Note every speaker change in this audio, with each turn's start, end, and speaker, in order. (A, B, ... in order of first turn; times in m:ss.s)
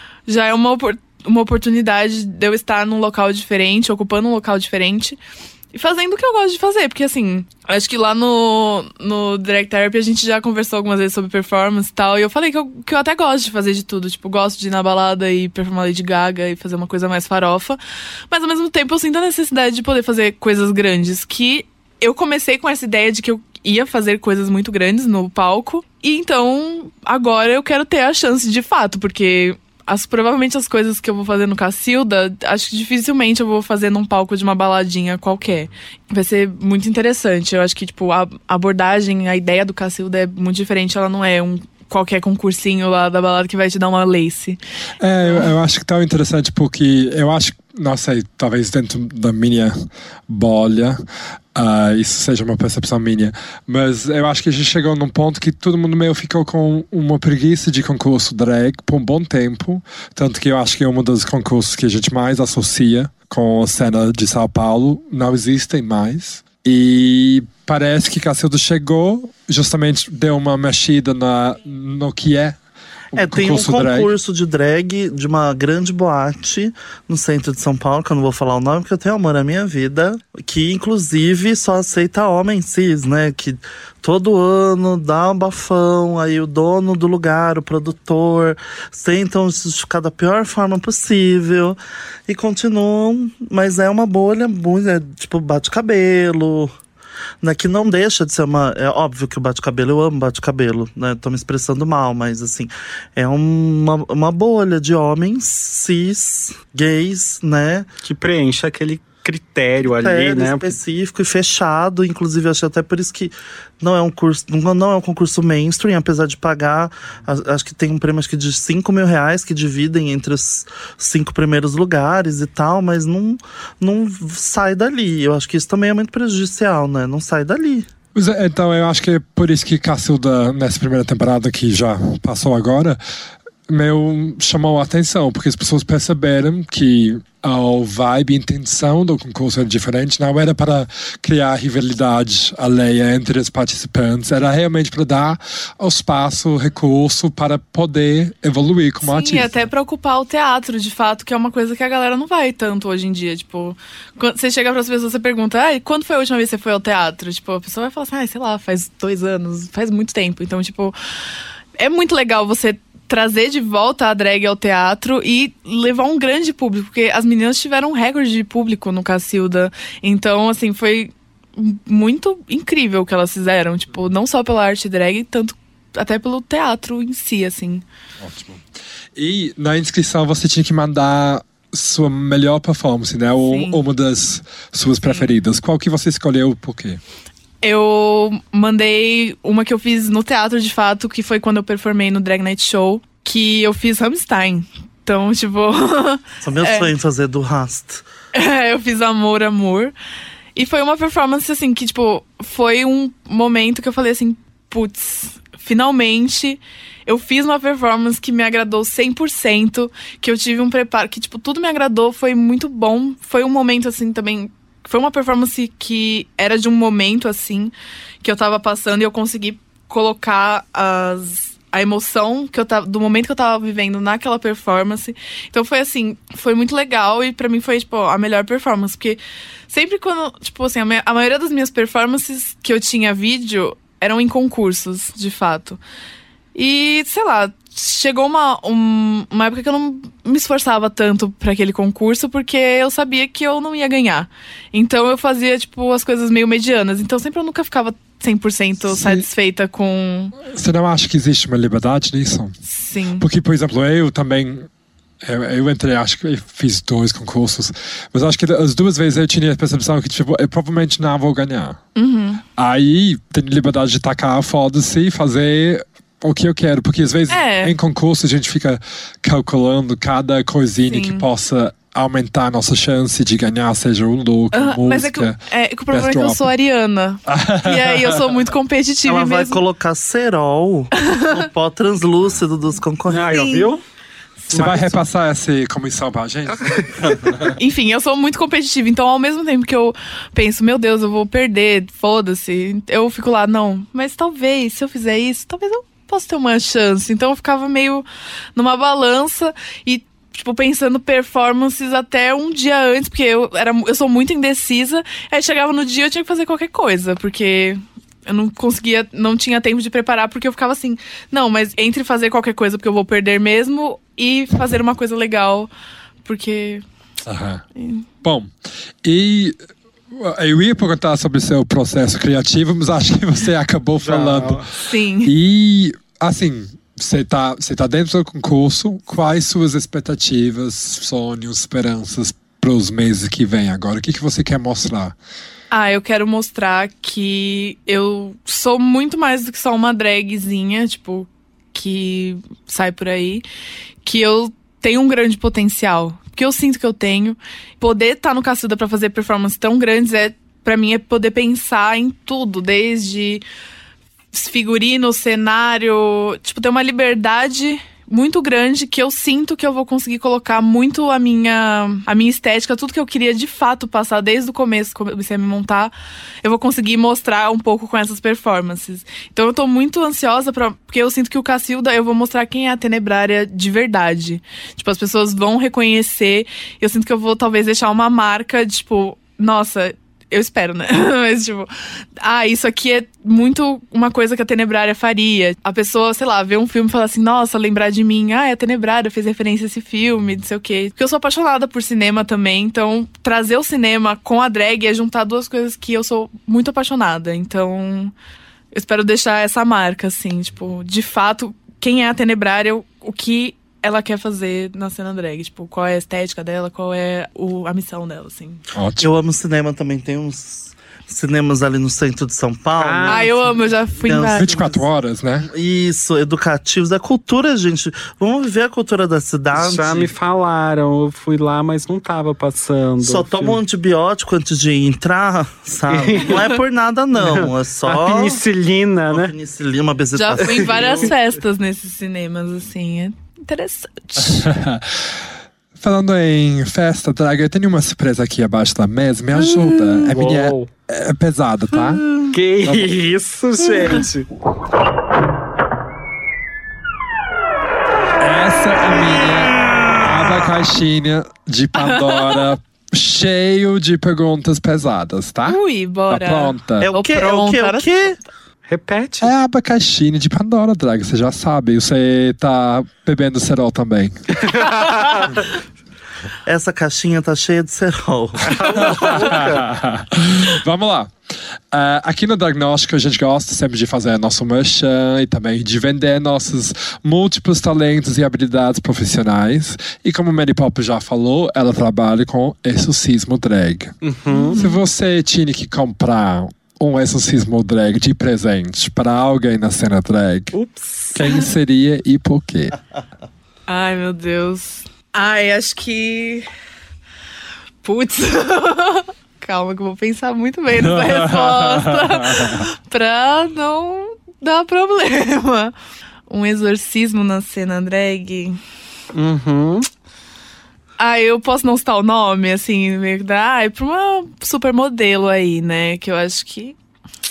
0:00.3-0:05.2 A
0:05.7-0:17.8 A
0:18.3-0:44.6 A
0:45.0-0:51.0 B
0:45.2-0:45.5 A
0:51.5-1:12.6 B
1:13.1-1:14.1 B
1:13.2-1:36.7 C
1:37.4-1:47.9 C
1:48.0-1:50.7 D
1:49.8-2:07.9 C
2:08.1-2:13.0 B
2:13.7-2:29.5 B
2:29.0-2:40.9 A
2:41.8-2:57.8 A
2:58.2-2:58.6 B
2:59.1-3:07.0 B
3:03.4-3:03.8 A
3:05.0-3:05.3 A
3:07.6-3:16.9 A
3:16.4-3:18.0 C
3:18.3-3:19.9 A
3:20.6-3:55.8 A
3:56.5-4:10.4 A
4:08.9-4:09.2 B
4:10.4-4:12.6 B
4:12.6-4:13.2 A
4:13.2-4:14.7 B
4:15.2-4:21.8 B
4:21.9-4:22.4 A
4:22.6-4:35.4 B
4:27.3-4:27.7 A
4:30.9-4:31.2 A
4:34.5-4:39.6 A
4:35.9-4:36.5 B
4:37.2-4:38.3 B
4:39.0-4:43.5 C
4:41.0-4:41.4 A
4:43.1-4:43.8 D
4:43.3-4:43.6 A
4:44.5-4:45.0 D
4:44.5-4:47.5 B
4:47.6-4:58.0 A
4:58.6-5:15.7 A
5:16.2-5:16.8 A
5:17.2-5:17.6 B
5:17.8-5:18.0 A
5:18.2-5:19.6 B
5:20.1-5:24.6 B
5:24.0-5:24.7 D
5:24.8-5:25.3 A
5:25.2-5:35.1 B
5:35.7-5:43.4 A
5:44.0-5:53.4 A
5:54.3-6:38.1 A
6:38.7-6:48.6 A
6:48.7-6:49.1 B
6:49.0-6:53.4 C
6:52.8-6:53.4 D
6:53.1-6:54.5 A
6:54.0-6:54.9 C
6:54.4-6:55.5 B
6:55.4-7:00.1 C
6:59.5-7:03.6 D
7:03.0-7:08.4 C
7:05.9-7:06.5 D
7:07.1-7:09.3 D
7:09.1-7:11.1 C
7:10.1-7:14.5 A
7:14.2-7:15.2 B
7:15.8-7:22.0 B
7:20.0-7:20.7 D
7:22.3-7:24.3 D
7:22.6-7:22.9 B
7:28.2-7:36.9 B
7:31.8-7:32.4 A
7:35.4-7:37.9 A
7:36.8-7:38.2 C
7:38.7-7:39.3 D
7:39.2-7:44.2 B
7:44.7-7:45.2 A
7:46.4-7:48.8 C
7:48.5-7:49.7 D
7:49.0-8:04.0 B
8:04.0-8:04.6 D
8:04.3-8:04.8 A
8:04.5-8:10.5 B
8:10.5-8:11.2 D
8:11.1-8:12.8 B
8:13.7-8:16.5 A
8:17.8-8:25.7 A
8:20.8-8:22.6 B
8:26.3-8:28.6 A
8:29.1-8:29.9 D
8:31.0-8:36.7 A